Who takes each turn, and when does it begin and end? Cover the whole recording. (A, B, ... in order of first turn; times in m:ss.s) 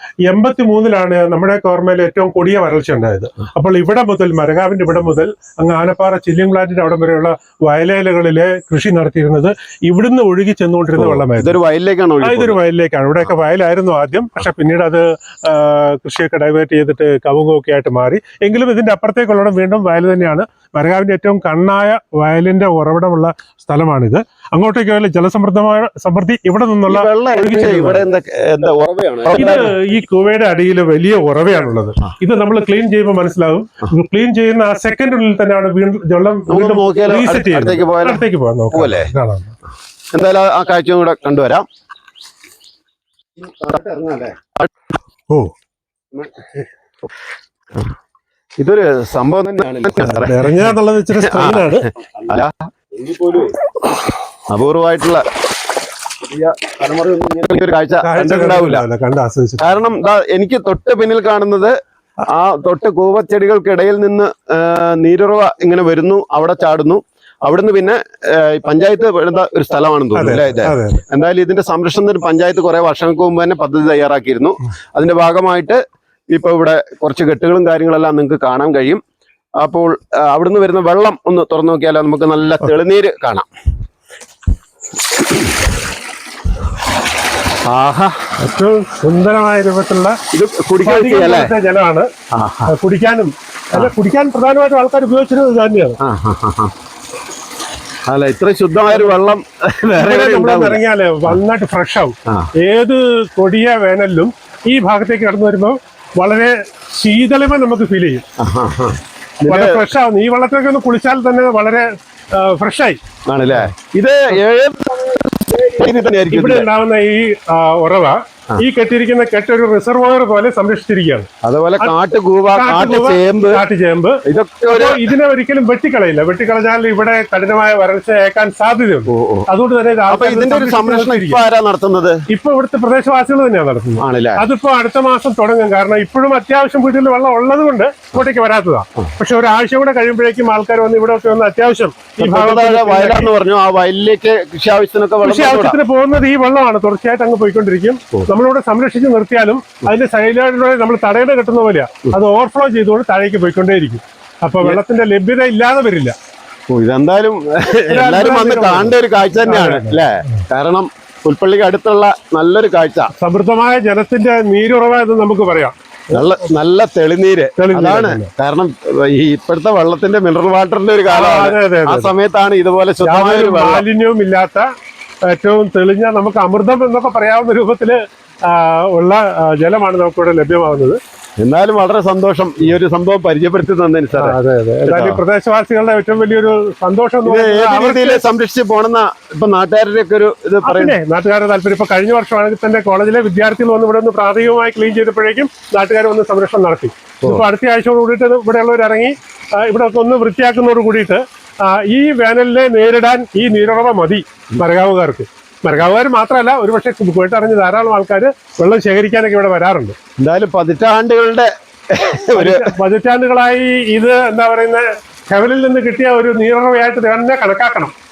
0:00.2-0:11.6 A
0:11.0-0:12.6 B
0:12.2-0:28.0 A
0:26.9-0:29.7 B
0:29.3-0:39.6 A
0:36.5-0:39.1 B
0:40.1-0:41.6 B
0:43.4-0:44.7 B
0:46.1-0:46.6 B
0:48.6-0:50.4 B
0:50.0-0:51.9 A
0:51.2-0:53.6 B
0:54.5-0:55.2 B
0:56.3-0:58.8 B
0:58.0-0:59.8 A
0:59.6-1:01.7 B
1:02.2-1:15.8 B
1:10.2-1:11.0 A
1:16.3-1:19.0 B
1:19.6-1:23.5 B
1:27.6-1:28.2 B
1:28.4-1:30.2 A
1:30.3-1:31.5 B
1:30.8-1:32.1 A
1:32.3-1:32.7 B
1:32.7-1:36.0 A
1:36.0-1:36.7 B
1:38.1-1:41.4 B
1:38.9-1:39.2 A
1:40.0-1:48.2 A
1:48.4-1:49.8 B
1:49.4-1:53.0 A
1:53.3-1:56.7 B
1:56.3-2:01.9 A
2:01.4-2:03.6 B
2:02.5-2:11.4 A
2:04.2-2:05.1 B
2:09.1-2:09.5 B
2:10.1-2:12.2 B
2:12.3-2:23.3 A
2:14.0-2:14.4 B
2:22.2-2:25.8 B
2:25.2-2:36.2 A
2:36.7-2:43.1 B
2:37.9-2:40.4 A
2:43.2-2:45.8 A
2:46.1-2:53.8 B
2:47.6-2:48.3 A
2:51.1-2:52.1 A
2:53.0-2:54.7 A
2:55.3-3:01.0 A
3:01.4-3:05.2 B
3:04.1-3:08.2 A
3:07.3-3:11.0 B
3:10.6-3:30.0 A
3:30.2-3:32.7 B
3:32.3-3:37.9 A